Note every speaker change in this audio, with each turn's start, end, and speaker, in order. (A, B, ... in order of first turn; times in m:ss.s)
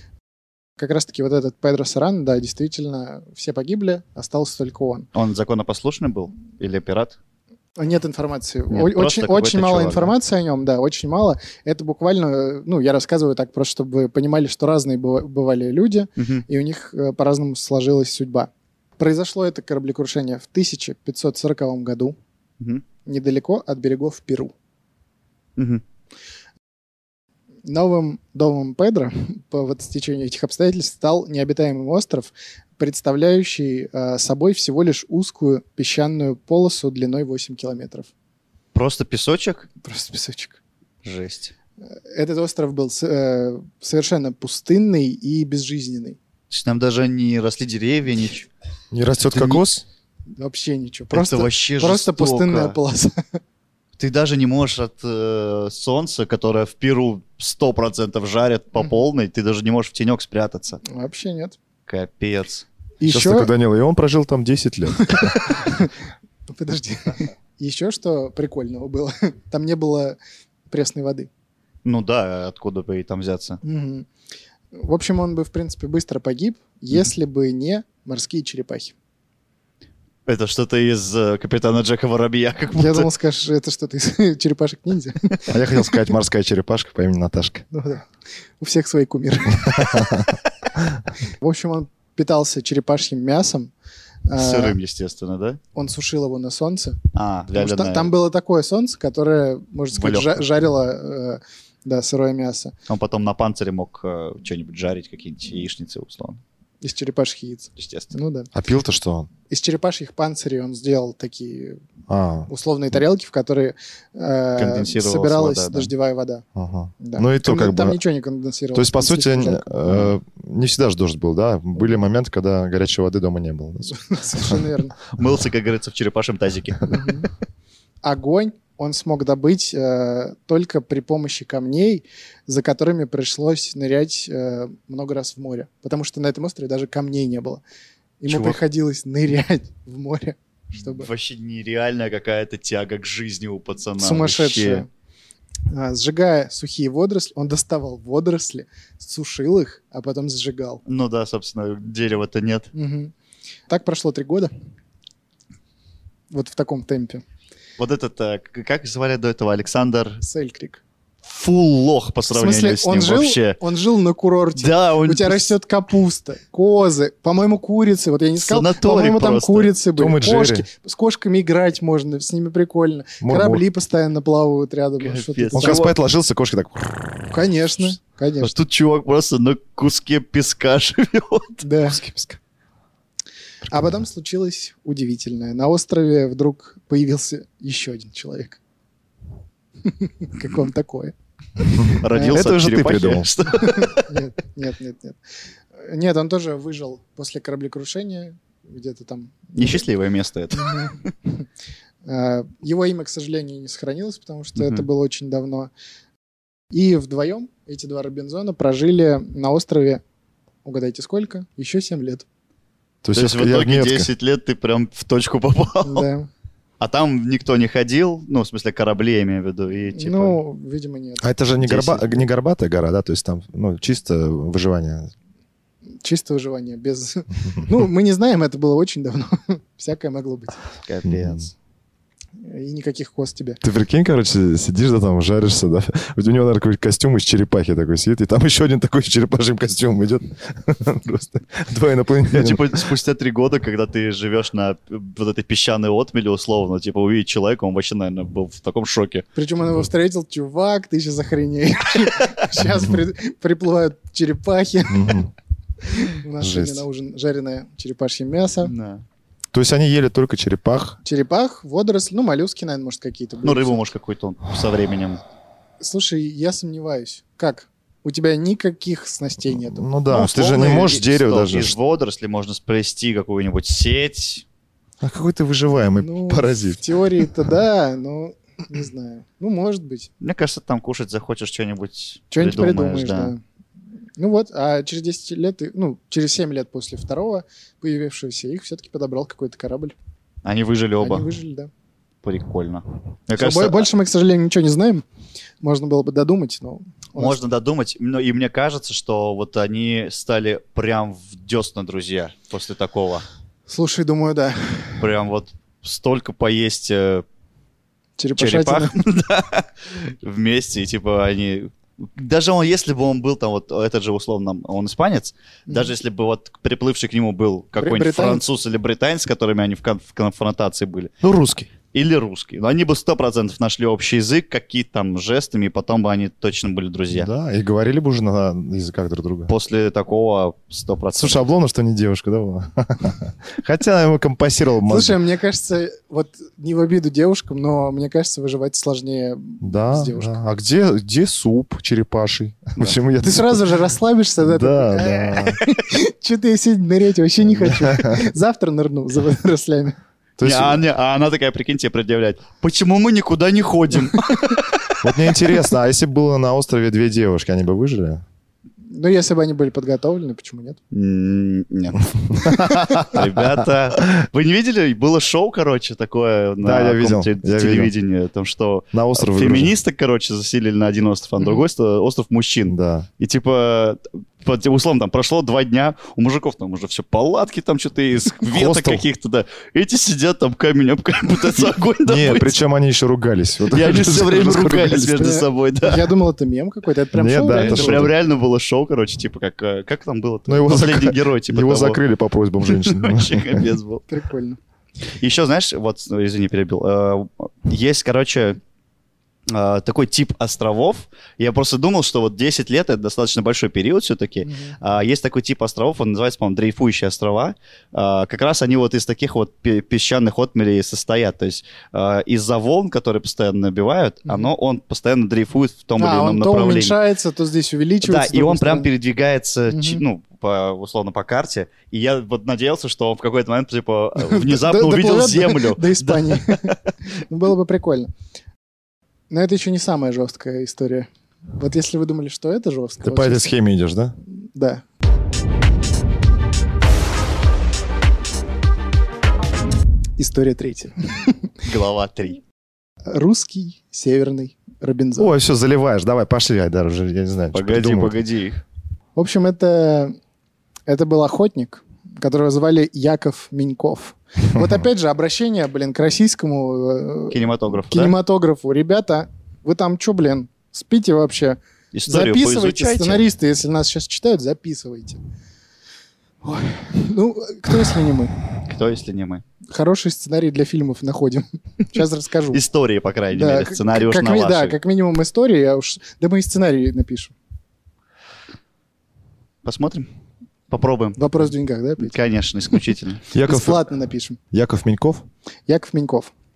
0:00.8-0:05.1 A
0:05.2-0:07.2 B
0:07.8-0:22.2 A
0:08.7-0:10.1 B
0:16.2-0:16.4 B
0:23.0-0:24.5 A
0:25.6-0:25.8 B
0:27.6-0:38.1 A
0:38.7-0:39.7 B
0:39.8-0:40.6 A
0:41.0-0:41.5 B
0:42.1-0:46.2 A
0:46.5-0:48.5 B
0:48.9-0:49.8 C
0:49.3-0:49.6 B
0:50.4-0:53.2 A
0:51.1-0:52.8 B
0:54.0-1:00.8 B
1:00.8-1:01.6 A
1:01.9-1:02.7 B
1:03.0-1:03.5 A
1:03.0-1:05.6 C
1:05.0-1:05.9 A
1:06.5-1:10.2 A
1:10.7-1:11.3 A
1:11.8-1:13.6 B
1:13.6-1:14.1 A
1:14.7-1:18.9 A
1:20.3-1:23.1 B
1:22.7-1:26.1 A
1:25.5-1:27.6 C
1:27.7-1:28.1 A
1:28.6-1:30.3 A
1:29.6-1:30.4 C
1:31.2-1:33.7 A
1:34.3-1:34.8 A
1:34.4-1:35.6 B
1:35.8-1:37.0 A
1:37.1-1:38.1 B
1:37.6-1:42.7 A
1:39.9-1:40.4 B
1:42.9-1:46.4 B
1:46.8-1:48.5 A
1:47.8-1:48.1 B
1:48.5-1:49.3 C
1:49.5-1:51.8 A
1:52.1-1:52.5 C
1:52.5-1:56.4 A
1:54.6-1:55.9 B
1:56.6-1:58.0 C
1:57.0-2:00.0 A
1:58.7-2:04.6 C
2:03.9-2:05.0 A
2:05.1-2:07.1 B
2:06.9-2:07.3 A
2:08.0-2:17.6 A
2:18.2-2:21.1 A
2:18.3-2:18.6 B
2:20.8-2:24.9 B
2:24.0-2:24.9 A
2:25.7-2:30.8 A
2:30.9-2:32.7 B
2:32.7-2:33.1 A
2:33.7-2:34.5 A
2:36.3-2:37.2 A
2:37.8-2:40.2 B
2:40.2-2:40.8 A
2:41.2-2:43.6 B
2:42.3-2:55.8 A
2:44.6-2:45.6 B
2:48.4-2:49.7 B
2:50.0-2:50.7 C
2:53.2-2:53.6 C
2:55.0-2:55.9 B
2:55.6-2:57.3 C
2:57.3-2:58.5 A
2:58.4-3:01.7 B
3:01.6-3:02.0 A
3:02.0-3:02.4 C
3:03.7-3:08.6 A
3:09.8-3:12.4 A
3:12.0-3:14.1 B
3:12.2-3:13.3 C
3:13.5-3:15.2 A
3:15.8-3:19.8 A
3:19.6-3:21.1 B
3:20.5-3:21.4 A
3:22.0-3:25.7 A
3:24.6-3:24.9 B
3:26.7-3:30.0 A
3:30.6-3:32.3 A
3:33.0-3:34.1 C
3:33.2-3:36.1 B
3:35.8-3:36.3 A
3:36.8-3:40.4 B
3:39.9-3:41.3 A
3:41.2-3:45.1 C
3:41.6-3:42.2 B
3:46.0-3:50.6 A
3:50.8-3:51.5 B
3:51.1-3:51.4 C
3:52.4-3:53.6 A
3:53.6-4:02.9 C
4:02.3-4:09.2 B
4:09.4-4:15.2 A
4:12.6-4:13.0 C
4:14.9-4:15.3 C
4:15.9-4:18.7 A
4:16.4-4:16.8 C
4:18.6-4:19.0 B
4:19.5-4:21.0 C
4:21.0-4:23.9 A
4:23.4-4:25.2 B
4:25.8-4:29.9 A
4:29.5-4:31.8 C
4:30.1-4:34.4 B
4:35.0-4:37.3 C
4:36.0-4:40.1 A
4:40.2-4:43.3 B
4:42.3-4:43.4 A
4:44.2-4:50.0 A
4:50.4-4:51.3 B
4:51.0-4:51.7 A
4:52.2-4:53.9 B
4:53.4-4:55.0 A
4:55.6-4:57.4 A
4:57.2-5:03.3 B
5:03.7-5:05.0 A
5:05.0-5:07.2 B
5:08.2-5:09.0 A
5:08.4-5:21.2 B
5:17.8-5:18.4 A
5:21.2-5:21.7 C
5:21.9-5:27.3 B
5:27.1-5:29.5 C
5:29.5-5:31.4 B
5:31.2-5:35.2 C
5:34.9-5:40.4 A
5:39.6-5:43.8 C
5:43.2-5:50.0 A
5:44.4-5:45.6 C
5:47.5-5:48.3 C
5:50.4-5:50.8 C
5:50.4-5:55.0 B
5:55.0-5:58.2 C
5:58.8-6:00.8 A
6:00.9-6:22.6 B
6:02.4-6:03.7 C
6:06.6-6:07.9 C
6:08.9-6:09.7 C
6:11.4-6:11.6 A
6:12.7-6:13.1 C
6:18.5-6:19.0 C
6:22.1-6:25.3 C
6:23.7-6:26.1 B
6:25.2-6:28.1 A
6:27.1-6:28.1 C
6:27.6-6:32.0 B
6:30.5-6:33.7 C
6:32.6-6:34.0 B
6:34.1-6:34.6 A
6:35.2-6:38.6 B
6:39.5-6:57.0 B
6:44.4-6:44.8 A
6:56.0-6:58.9 A
6:58.0-7:06.9 B
6:59.7-7:00.0 A
7:04.2-7:08.1 A
7:09.3-7:13.5 A
7:13.0-7:14.2 C
7:14.4-7:14.8 A
7:20.2-7:21.5 A
7:21.6-7:22.4 B
7:23.1-7:25.3 A
7:25.2-7:28.2 C
7:27.5-7:28.6 B
7:29.2-7:30.2 A
7:30.9-7:45.2 A
7:37.3-7:38.2 B
7:41.9-7:43.2 B
7:46.4-7:48.4 A
7:48.6-7:49.4 B
7:49.7-7:52.6 A
7:52.5-7:54.8 B
7:53.3-7:57.3 A
7:59.6-8:00.1 B
8:00.7-8:01.2 B
8:01.2-8:02.2 A
8:02.0-8:03.2 B
8:03.3-8:03.8 C
8:03.4-8:04.4 A
8:04.5-8:05.3 C
8:05.7-8:06.3 A